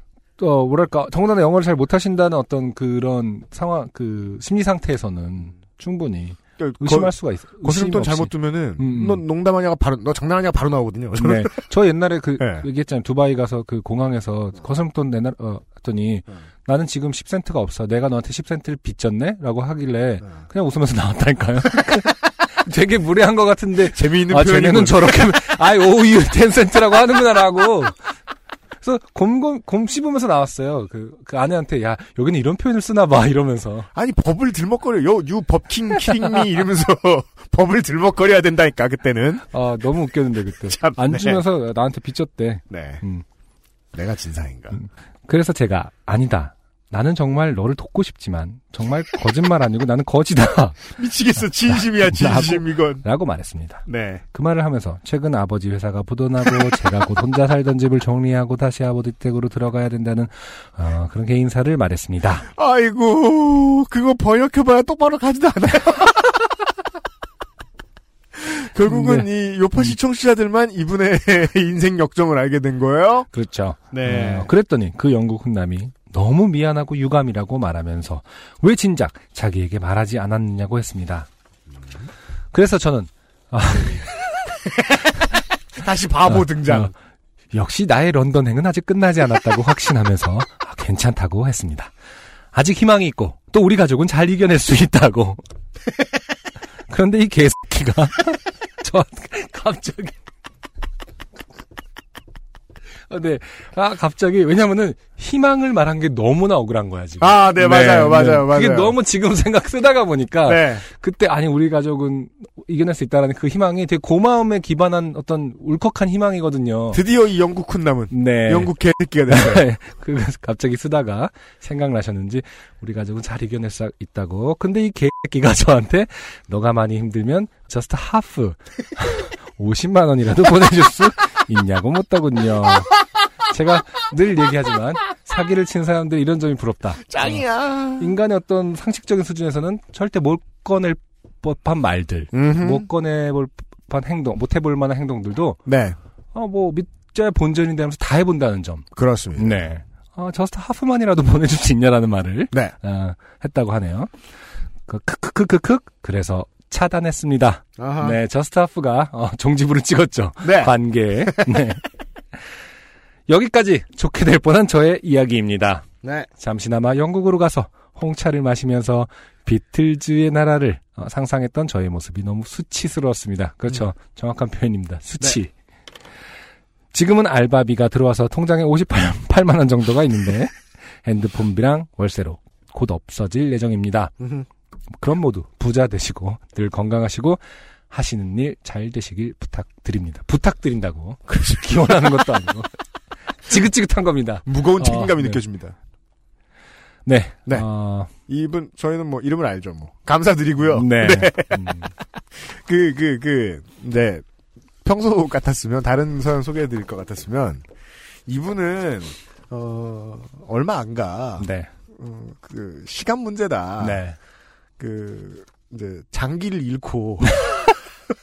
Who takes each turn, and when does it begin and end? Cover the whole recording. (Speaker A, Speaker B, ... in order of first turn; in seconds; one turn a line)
Speaker A: 0.4-9.2
Speaker B: 6.6-11.6
Speaker A: 11.2-28.0
Speaker B: 12.4-12.7
Speaker B: 23.8-25.4
Speaker A: 28.8-33.9
Speaker B: 33.9-39.5
Speaker A: 39.5-43.2
Speaker B: 40.6-41.5
Speaker B: 42.7-43.0
Speaker B: 43.9-44.8
Speaker A: 44.7-51.0
Speaker B: 50.9-53.1
Speaker A: 51.7-62.5
Speaker B: 53.9-54.2
Speaker B: 62.5-66.5
Speaker B: 68.4-73.3
Speaker A: 68.8-69.3
Speaker A: 73.3-81.3
Speaker B: 73.9-74.5
Speaker A: 82.5-84.4
Speaker B: 85.8-86.9
Speaker A: 86.3-86.9
Speaker A: 87.5-91.9
Speaker A: 92.5-95.4
Speaker A: 96.9-100.2
Speaker A: 103.1-117.0
Speaker B: 107.2-109.0
Speaker B: 110.5-110.8
Speaker B: 116.9-119.7
Speaker A: 118.1-118.7
Speaker A: 119.3-132.9
Speaker A: 133.5-145.6
Speaker B: 137.1-138.2
Speaker B: 142.3-142.9
Speaker B: 145.7-146.0
Speaker A: 146.3-154.1
Speaker B: 148.9-149.6
Speaker A: 154.9-161.8
Speaker B: 157.8-158.2
Speaker B: 160.4-161.8
Speaker A: 163.3-165.9
Speaker B: 166.0-166.3
Speaker A: 166.4-175.5
Speaker A: 176.9-184.1
Speaker A: 185.0-192.7
Speaker A: 193.4-195.4
Speaker B: 194.5-195.8
Speaker A: 197.1-198.1
Speaker B: 198.2-201.8
Speaker A: 200.7-201.9
Speaker B: 202.3-204.2
Speaker B: 204.8-207.7
Speaker B: 208.3-214.0
Speaker A: 211.4-211.7
Speaker A: 213.8-214.2
Speaker B: 214.8-217.6